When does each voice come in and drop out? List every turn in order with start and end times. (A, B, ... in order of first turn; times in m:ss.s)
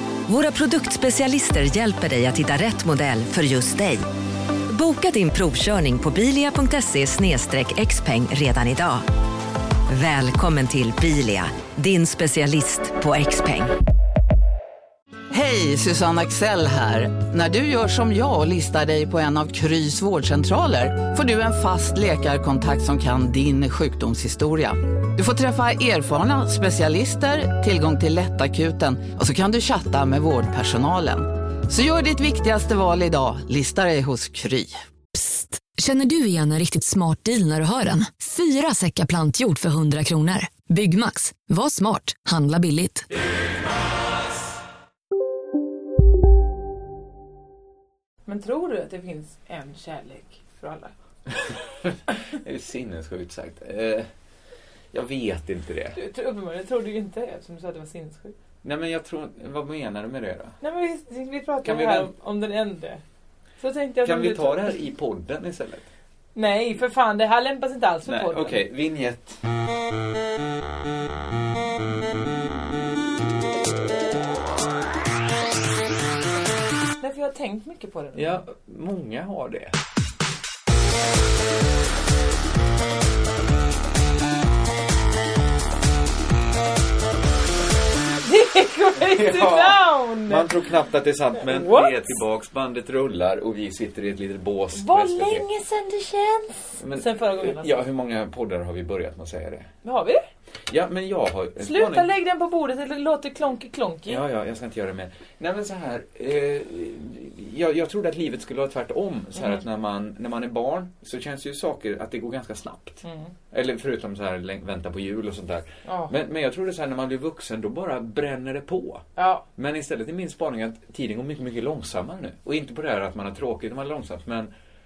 0:00.3-0:04.0 A
0:04.7-0:09.1 A
0:09.9-0:13.7 A
0:15.3-0:34.8 B
0:35.1-0:43.1 C
0:48.2-0:50.9 D
0:51.4-0:54.1 E
0:54.9-0:56.0 E
0:56.0-0:58.3 D
0:58.6-1:00.6 E
1:00.6-1:03.0 D
1:01.6-1:02.1 E
1:03.6-1:04.7 D
1:04.0-1:05.8 E
1:06.3-1:08.6 D
1:08.0-1:09.4 E
1:17.0-1:18.4 D
1:18.2-1:19.8 E
1:28.2-1:30.5 D
1:29.0-1:35.4 E
1:31.4-1:32.1 D
1:34.7-1:37.8 D
1:36.8-1:39.7 E
1:39.8-1:40.2 D
1:40.7-1:42.1 E
1:41.6-1:44.2 D
1:44.1-2:04.5 E
1:53.0-1:53.3 D
1:55.8-1:56.1 D
1:59.2-1:59.4 D